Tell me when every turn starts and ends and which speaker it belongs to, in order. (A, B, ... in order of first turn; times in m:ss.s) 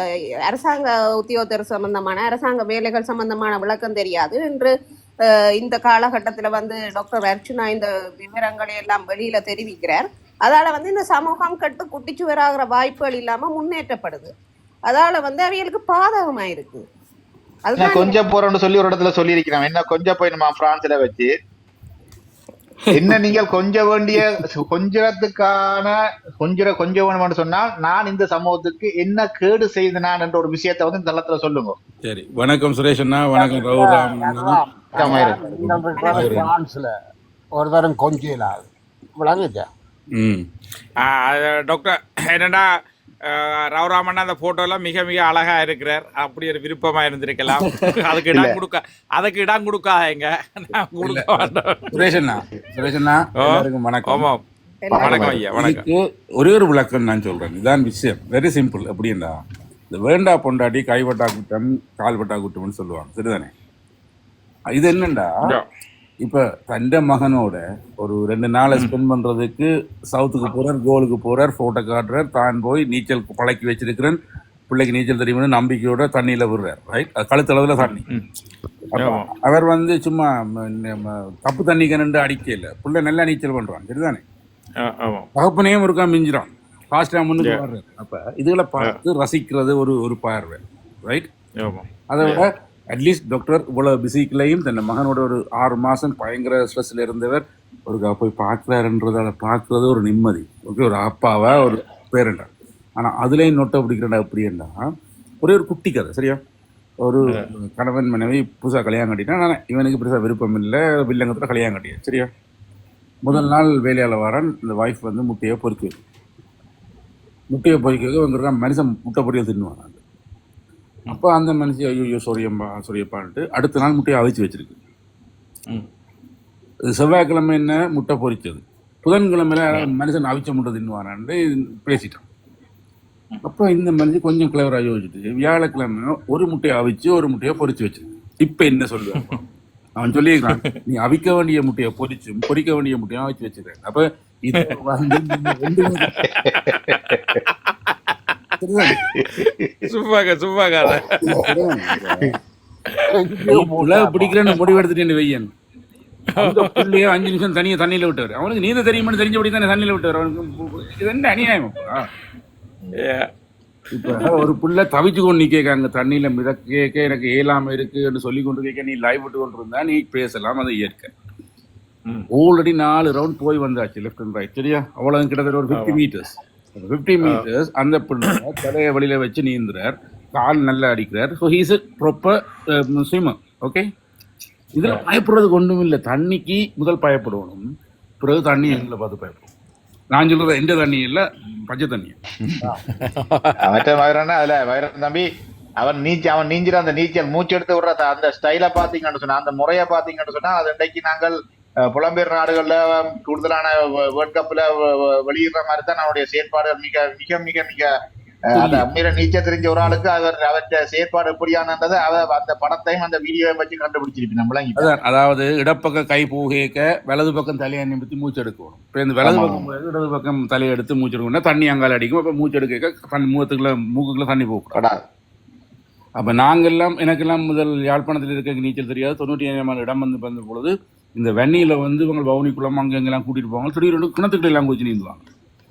0:00.5-0:04.7 A
0:05.6-0:14.3 A
0:14.9-0:16.8 A
0:17.6-0:18.2 A
0:17.8-0:21.3 B
0:22.9-0:31.8 B
0:32.0-0:36.5 C
0:33.3-0:36.9 D
0:35.0-0:35.4 B
0:36.0-0:36.3 A
0:37.6-0:39.7 D
0:40.2-0:40.5 C
0:41.0-0:42.7 E
0:43.3-0:52.0 E
0:48.3-0:48.6 B
0:51.0-0:54.3 C
0:53.4-0:54.4 E
0:54.9-0:55.4 B
0:55.0-0:55.8 E
0:55.0-0:59.4 C
0:59.9-1:03.5 C
1:04.7-1:05.4 C
1:06.2-1:14.2 C
1:14.7-1:18.0 C
1:18.9-1:24.2 C
1:19.0-1:19.3 E
1:24.8-1:25.3 E
1:25.4-1:31.3 C
1:31.6-1:32.4 E
1:32.1-1:44.7 C
1:45.4-1:46.4 C
1:47.0-1:52.3 C
1:53.2-1:56.0 C
1:57.5-2:00.0 C
2:01.1-2:04.8 C
2:06.9-2:12.2 C
2:13.4-2:19.4 C
2:20.0-2:26.2 C
2:26.1-2:27.9 E
2:26.7-2:27.2 B
2:28.6-2:29.0 C
2:29.1-2:29.9 B
2:29.4-2:31.5 E
2:31.2-2:32.4 C
2:33.2-2:34.3 D
2:33.5-2:35.5 C
2:36.4-2:37.0 E
2:36.4-2:42.1 C
2:43.0-2:43.3 E
2:43.9-2:51.1 C
2:52.3-3:03.8 C
2:55.7-2:56.0 E
3:04.8-3:07.6 C
3:08.2-3:09.5 C
3:10.1-3:12.2 C
3:13.0-3:13.6 E
3:13.6-3:15.3 B
3:15.8-3:21.4 B
3:21.9-3:27.9 B
3:28.5-3:34.9 B
3:28.5-3:28.8 C
3:34.8-3:44.8 C
3:39.2-3:39.7 B
3:44.7-3:45.0 B
3:46.2-3:55.2 C